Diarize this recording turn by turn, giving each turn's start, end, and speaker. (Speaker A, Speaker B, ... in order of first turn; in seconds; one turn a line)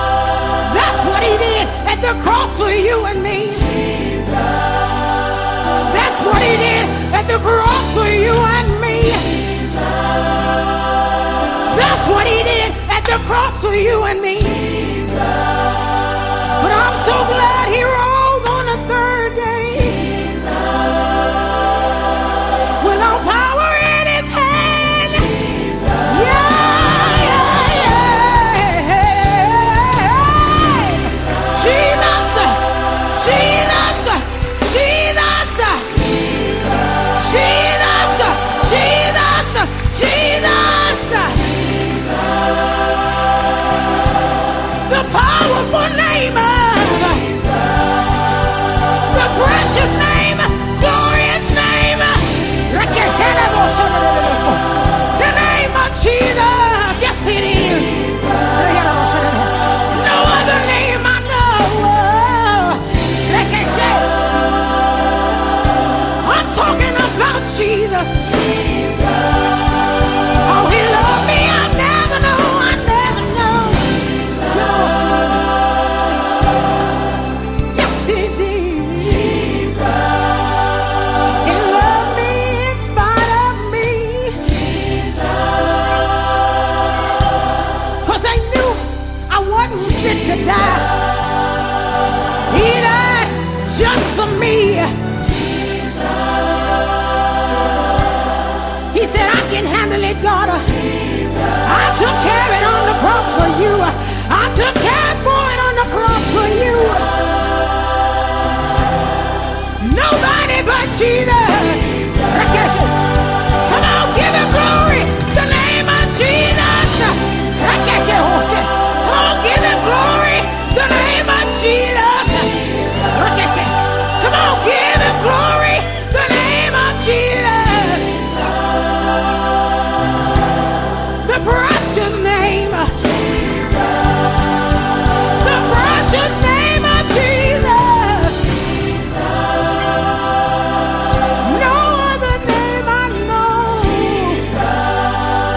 Speaker A: 0.6-3.9
Speaker A: 5.8-9.5
Speaker A: 11.7-15.1
Speaker A: 16.6-20.3
Speaker A: 22.8-36.1
Speaker A: 37.2-41.5
Speaker A: 44.9-47.3
Speaker A: 49.1-64.1
Speaker A: 66.2-68.3
Speaker A: 70.4-75.5
Speaker A: 77.7-79.7
Speaker A: 81.4-84.5
Speaker A: 88.0-90.9
Speaker A: 92.5-94.9
Speaker A: 98.9-100.8
Speaker A: 101.6-107.2
Speaker A: 109.8-113.0
Speaker A: 113.6-128.2
Speaker A: 131.2-132.9
Speaker A: 135.4-138.6
Speaker A: 141.4-144.5